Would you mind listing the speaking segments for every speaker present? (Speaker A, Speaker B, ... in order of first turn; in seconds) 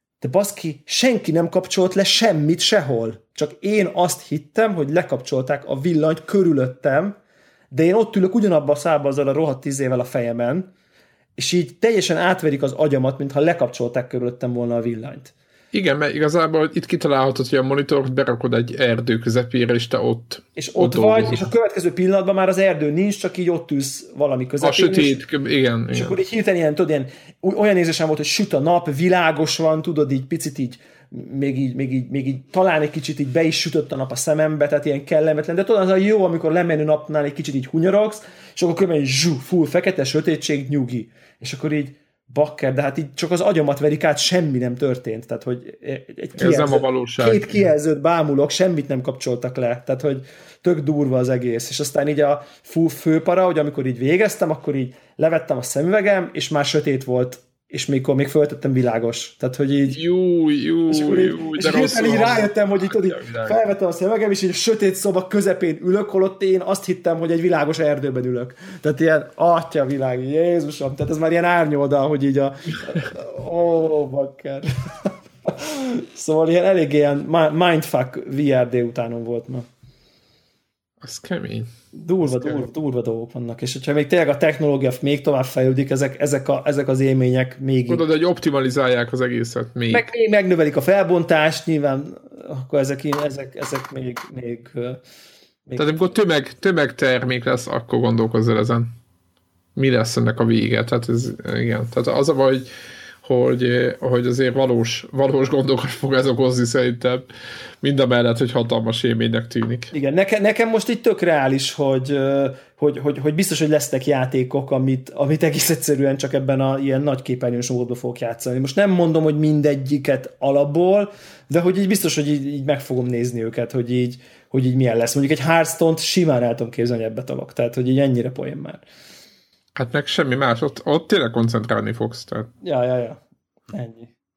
Speaker A: 0.2-7.2, 7.7-10.7, 11.4-15.3, 20.6-25.2, 25.9-60.0, 60.9-79.7, 82.0-88.0, 89.9-95.0, 95.7-95.9, 109.9-128.8, 132.6-133.2, 133.7-134.1
Speaker B: 15.7-21.4, 24.6-26.2, 46.4-47.4, 59.9-63.6, 81.0-81.7, 82.2-82.7, 87.9-90.1, 95.8-98.9, 99.8-102.7, 103.2-107.3, 107.8-109.9, 129.8-132.5